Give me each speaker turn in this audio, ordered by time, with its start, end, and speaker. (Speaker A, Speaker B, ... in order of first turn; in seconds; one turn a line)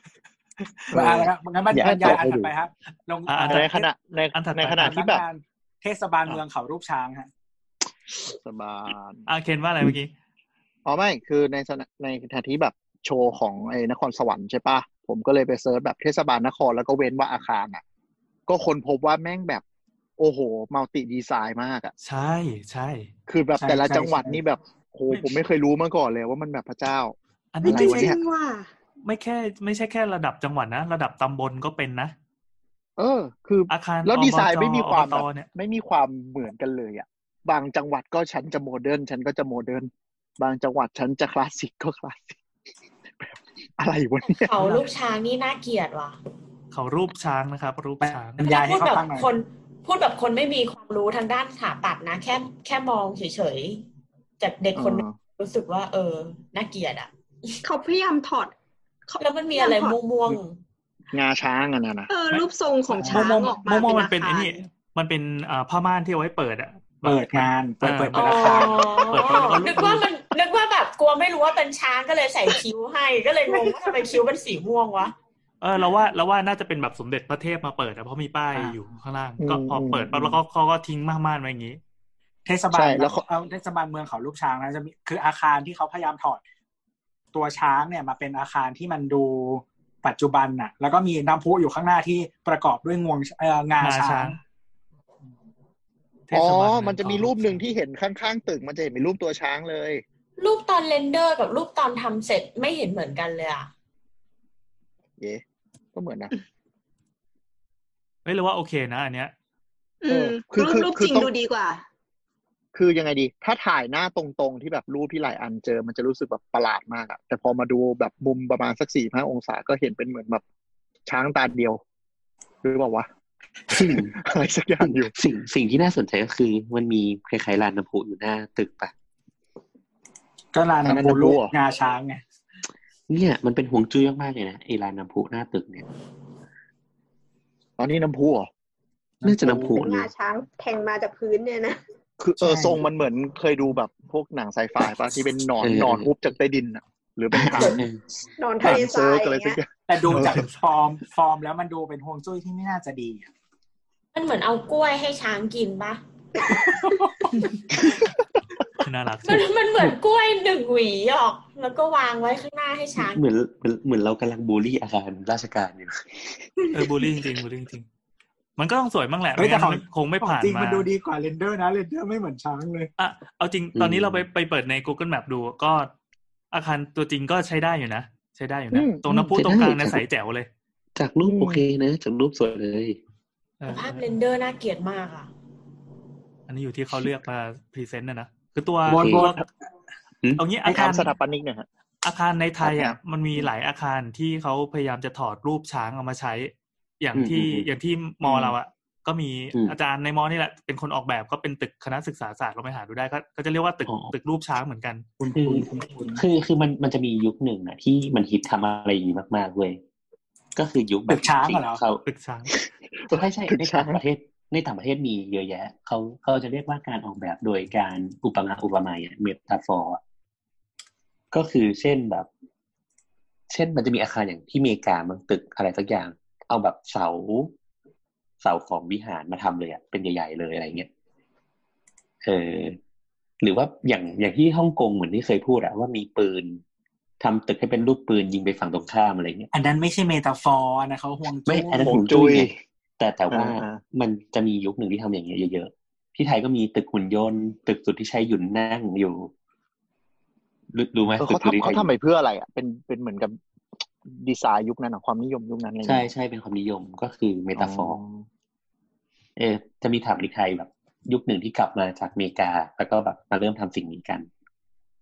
Speaker A: 0.9-1.3
Speaker B: 0.9-3.8
Speaker C: 1.7-2.5
Speaker D: 3.3-3.8
Speaker A: 3.4-5.2
Speaker D: 4.3-5.0
Speaker B: 4.7-7.3
Speaker A: 8.2-9.3
Speaker D: 9.3-10.1
Speaker A: 10.8-17.8
Speaker A: 18.5-19.6
Speaker A: 20.2-21.9
Speaker D: 22.0-23.1
Speaker A: 23.3-28.2
Speaker B: 23.6-24.4
Speaker D: 25.1-25.4
Speaker D: 27.5-28.1
Speaker E: 27.6-28.7
Speaker D: 29.0-32.1
Speaker A: 33.0-42.4
Speaker D: 33.7-35.5
Speaker A: 43.2-44.5
Speaker F: 44.2-46.1
Speaker D: 46.7-48.4
Speaker B: 48.0-49.3
Speaker F: 48.4-53.8
Speaker F: 54.4-57.6
Speaker A: 54.7-55.1
Speaker E: 57.6-58.5
Speaker E: 59.1-60.0
Speaker F: 59.2-60.6
Speaker A: 61.1-62.1
Speaker E: 62.1-64.6
Speaker D: 62.3-70.0
Speaker B: 63.0-63.3
Speaker B: 67.0-69.1
Speaker F: 68.1-75.1
Speaker D: 75.6-81.8
Speaker A: 79.4-80.4
Speaker B: 82.5-86.4
Speaker A: 82.7-83.2
Speaker B: 87.3-94.4
Speaker D: 93.8-94.4
Speaker D: 96.3-97.6
Speaker A: 96.3-100.0
Speaker F: 100.4-103.7
Speaker A: 105.9-106.3
Speaker D: 108.2-109.3
Speaker E: 110.0-111.8
Speaker A: 110.1-111.3
Speaker A: 112.7-120.4
Speaker A: 121.1-121.8
Speaker A: 122.6-123.1
Speaker C: 123.7-124.1
Speaker A: 123.7-125.1
Speaker C: 124.8-128.9
Speaker B: 130.5-132.2
Speaker A: 130.8-131.5
Speaker C: 133.1-135.8
Speaker A: 137.8-138.5
Speaker B: 139.2-139.8
Speaker C: 139.2-140.1
Speaker E: 139.6-141.8
Speaker A: 142.2-147.8
Speaker B: 142.4-142.8
Speaker C: 145.6-146.1
Speaker C: 147.3-148.0
Speaker E: 148.4-149.6
Speaker A: 148.6-150.4
Speaker B: 149.9-153.3
Speaker D: 150.1-150.6
Speaker F: 154.1-156.0
Speaker D: 158.8-159.5
Speaker F: 159.2-163.2
Speaker C: 163.0-166.2
Speaker D: 166.7-167.8
Speaker D: 168.6-170.9
Speaker B: 169.4-172.9
Speaker D: 173.0-175.9
Speaker C: 173.7-174.2
Speaker D: 176.5-180.5
Speaker A: 178.7-179.0
Speaker C: 179.1-180.0
Speaker C: 180.9-183.0
Speaker A: 181.2-181.6
Speaker D: 183.6-184.0
Speaker F: 183.7-185.3
Speaker D: 186.5-189.4
Speaker B: 188.9-189.4
Speaker C: 188.9-189.3
Speaker C: 190.2-190.5
Speaker D: 190.4-191.1
Speaker A: 190.6-191.7
Speaker D: 192.0-205.1
Speaker A: 192.6-193.4
Speaker C: 197.1-197.7
Speaker C: 203.8-204.1
Speaker B: 205.2-206.2
Speaker C: 205.3-209.8
Speaker C: 210.6-212.0
Speaker B: 211.1-211.8
Speaker D: 212.1-212.5
Speaker A: 213.1-214.0
Speaker C: 213.1-220.0
Speaker C: 221.3-222.3
Speaker C: 223.5-227.5
Speaker C: 228.4-230.9
Speaker C: 232.2-232.8
Speaker C: 233.4-236.6
Speaker C: 237.2-239.5
Speaker B: 239.5-241.9
Speaker C: 241.5-249.3
Speaker A: 241.8-242.6
Speaker A: 243.3-243.8
Speaker C: 250.7-251.9
Speaker A: 251.2-253.4
Speaker A: 254.1-256.0
Speaker C: 255.8-258.0
Speaker A: 257.5-258.1
Speaker C: 259.4-264.3